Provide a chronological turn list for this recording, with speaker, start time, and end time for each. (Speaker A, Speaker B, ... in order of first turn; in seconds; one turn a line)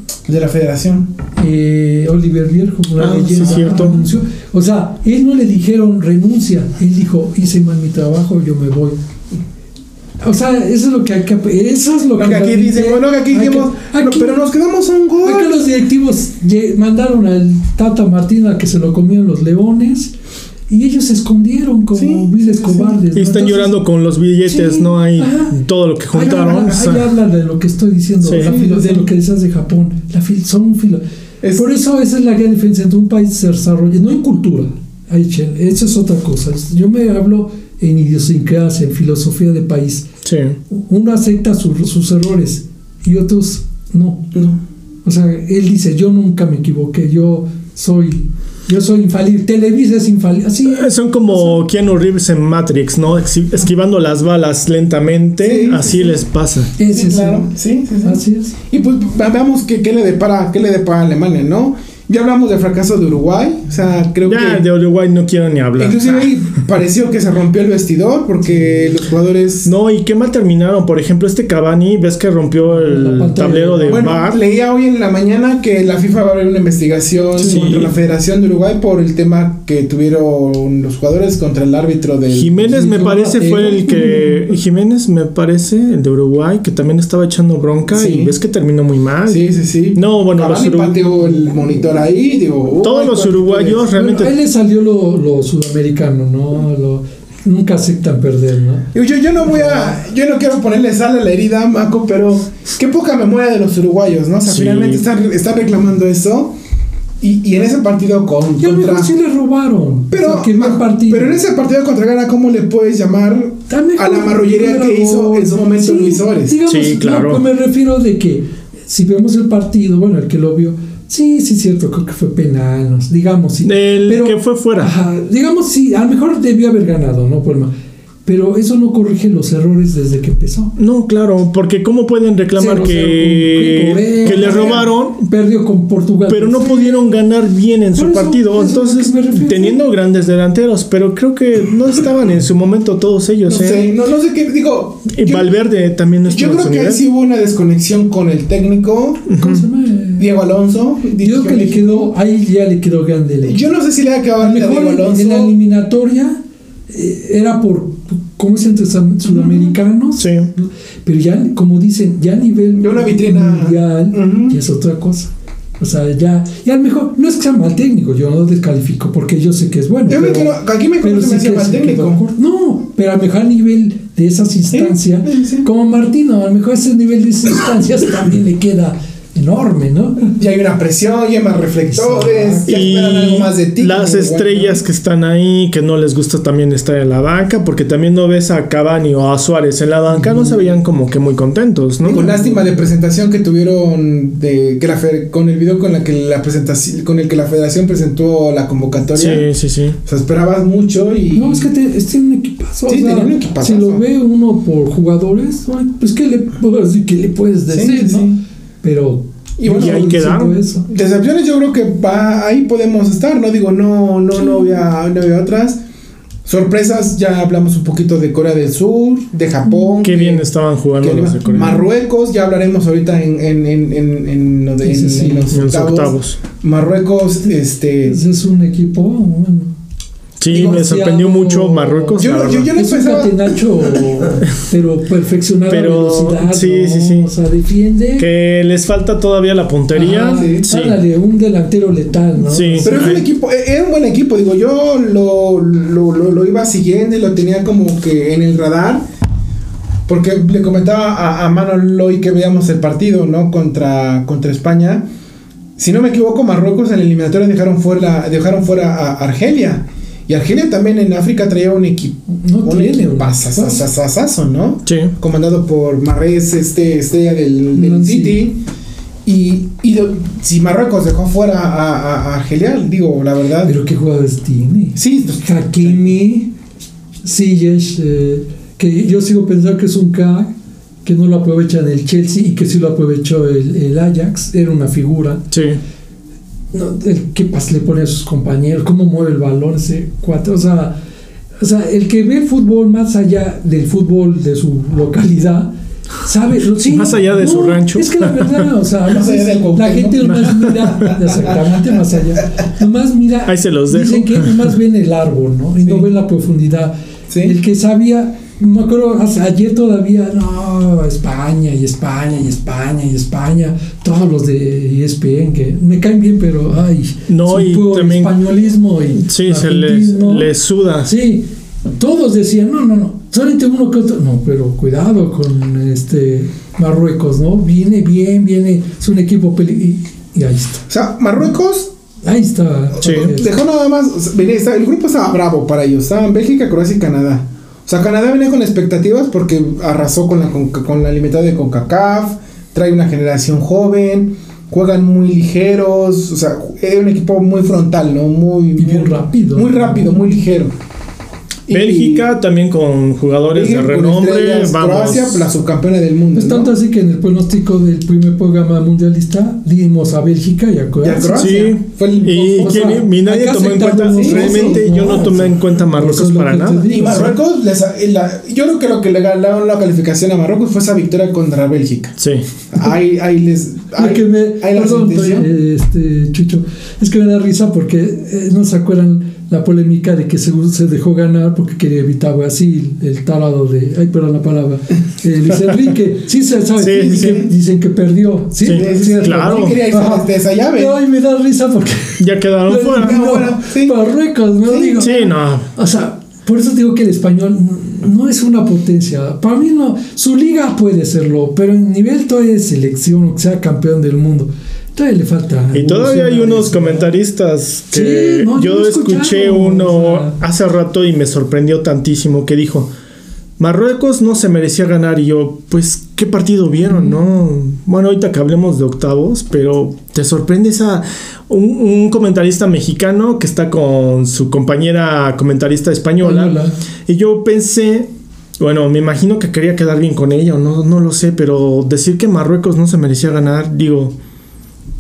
Speaker A: 0.3-1.1
Speaker B: 1.4-9.0
Speaker C: 3.0-4.0
Speaker A: 3.4-3.9
Speaker B: 10.2-14.4
Speaker A: 12.2-15.6
Speaker B: 15.2-20.1
Speaker B: 20.7-23.8
Speaker A: 21.9-23.0
Speaker C: 23.1-27.1
Speaker B: 24.5-25.6
Speaker B: 26.1-31.0
Speaker C: 28.2-28.5
Speaker A: 28.4-29.1
Speaker A: 31.4-31.7
Speaker B: 31.5-40.1
Speaker C: 40.2-40.6
Speaker B: 40.7-44.3
Speaker A: 44.3-44.6
Speaker B: 45.0-51.6
Speaker C: 50.7-56.7
Speaker A: 55.4-56.2
Speaker B: 56.8-57.5
Speaker A: 56.8-64.7
Speaker B: 58.0-58.5
Speaker C: 64.2-66.3
Speaker A: 65.8-69.7
Speaker B: 68.5-69.0
Speaker C: 69.7-74.4
Speaker B: 72.7-74.2
Speaker A: 73.9-82.8
Speaker B: 77.4-77.9
Speaker C: 77.4-77.9
Speaker C: 82.3-91.0
Speaker B: 82.6-84.5
Speaker A: 87.9-88.3
Speaker A: 89.3-93.9
Speaker B: 91.2-91.8
Speaker C: 92.8-94.3
Speaker B: 93.9-100.0
Speaker A: 98.9-106.5
Speaker C: 104.5-105.0
Speaker A: 107.2-109.1
Speaker B: 108.6-111.4
Speaker A: 110.1-116.6
Speaker B: 113.7-127.7
Speaker C: 116.7-117.4
Speaker C: 123.6-124.9
Speaker B: 128.3-130.8
Speaker C: 130.8-135.2
Speaker B: 132.6-137.1
Speaker A: 134.2-134.9
Speaker C: 136.3-143.9
Speaker B: 137.9-139.9
Speaker A: 143.5-145.5
Speaker C: 145.1-147.0
Speaker A: 146.2-149.3
Speaker C: 149.3-149.7
Speaker B: 149.3-150.3
Speaker A: 150.2-152.1
Speaker B: 151.2-153.6
Speaker A: 153.4-155.5
Speaker B: 154.4-180.4
Speaker A: 159.3-159.7
Speaker C: 160.2-160.5
Speaker A: 162.8-164.6
Speaker A: 170.1-172.2
Speaker A: 174.7-175.7
Speaker A: 180.4-184.8
Speaker B: 181.9-182.9
Speaker C: 182.7-192.2
Speaker B: 190.1-190.6
Speaker A: 192.1-199.5
Speaker B: 192.1-192.8
Speaker C: 199.2-200.0
Speaker A: 200.1-201.7
Speaker B: 201.3-208.3
Speaker A: 202.9-204.0
Speaker A: 207.7-208.4
Speaker B: 208.8-210.9
Speaker A: 209.6-210.2
Speaker C: 209.7-210.6
Speaker A: 210.9-215.8
Speaker B: 214.4-214.8
Speaker A: 216.5-220.5
Speaker B: 219.6-220.0
Speaker C: 220.0-221.8
Speaker A: 221.0-228.2
Speaker B: 221.5-221.9
Speaker B: 224.8-225.5
Speaker C: 225.5-226.4
Speaker B: 228.1-229.7
Speaker C: 230.4-232.7
Speaker A: 230.5-230.9
Speaker B: 230.5-232.2
Speaker A: 232.2-234.2
Speaker B: 232.7-238.3
Speaker C: 235.7-237.3
Speaker C: 238.2-241.0
Speaker B: 239.9-243.1
Speaker A: 240.2-240.7
Speaker C: 242.5-243.2
Speaker A: 242.8-249.0
Speaker A: 250.1-255.1
Speaker A: 255.8-268.6
Speaker B: 262.3-263.9
Speaker C: 264.9-265.1
Speaker B: 267.7-268.5
Speaker A: 269.3-273.7
Speaker B: 273.6-276.5
Speaker A: 275.0-276.1
Speaker B: 277.2-280.5
Speaker B: 281.1-285.4
Speaker C: 285.5-285.8
Speaker B: 286.7-291.0
Speaker B: 291.6-320.5
Speaker C: 296.9-298.7
Speaker A: 299.1-301.6
Speaker C: 300.2-300.7
Speaker C: 303.5-304.7
Speaker A: 307.3-307.6
Speaker C: 317.3-318.4
Speaker C: 319.1-321.1
Speaker B: 321.1-330.8
Speaker A: 330.9-331.9
Speaker B: 332.2-333.5
Speaker C: 333.0-333.3
Speaker A: 333.2-350.7
Speaker B: 348.8-350.4
Speaker A: 351.7-352.3
Speaker C: 351.7-355.5
Speaker A: 353.5-356.7
Speaker B: 356.4-361.5
Speaker A: 361.0-362.9
Speaker C: 361.4-367.3
Speaker B: 362.6-367.4
Speaker A: 364.1-365.3
Speaker A: 366.9-372.2
Speaker C: 372.2-372.4
Speaker A: 372.7-375.5
Speaker B: 374.0-407.2
Speaker C: 386.8-387.4
Speaker A: 386.9-387.5
Speaker C: 388.6-389.8
Speaker A: 388.7-391.0
Speaker C: 392.2-393.2
Speaker A: 392.9-394.0
Speaker A: 394.7-395.2
Speaker C: 395.0-395.7
Speaker C: 405.7-412.9
Speaker B: 407.9-410.4
Speaker C: 413.6-426.6
Speaker B: 416.8-417.2
Speaker B: 426.2-426.8
Speaker C: 427.1-434.2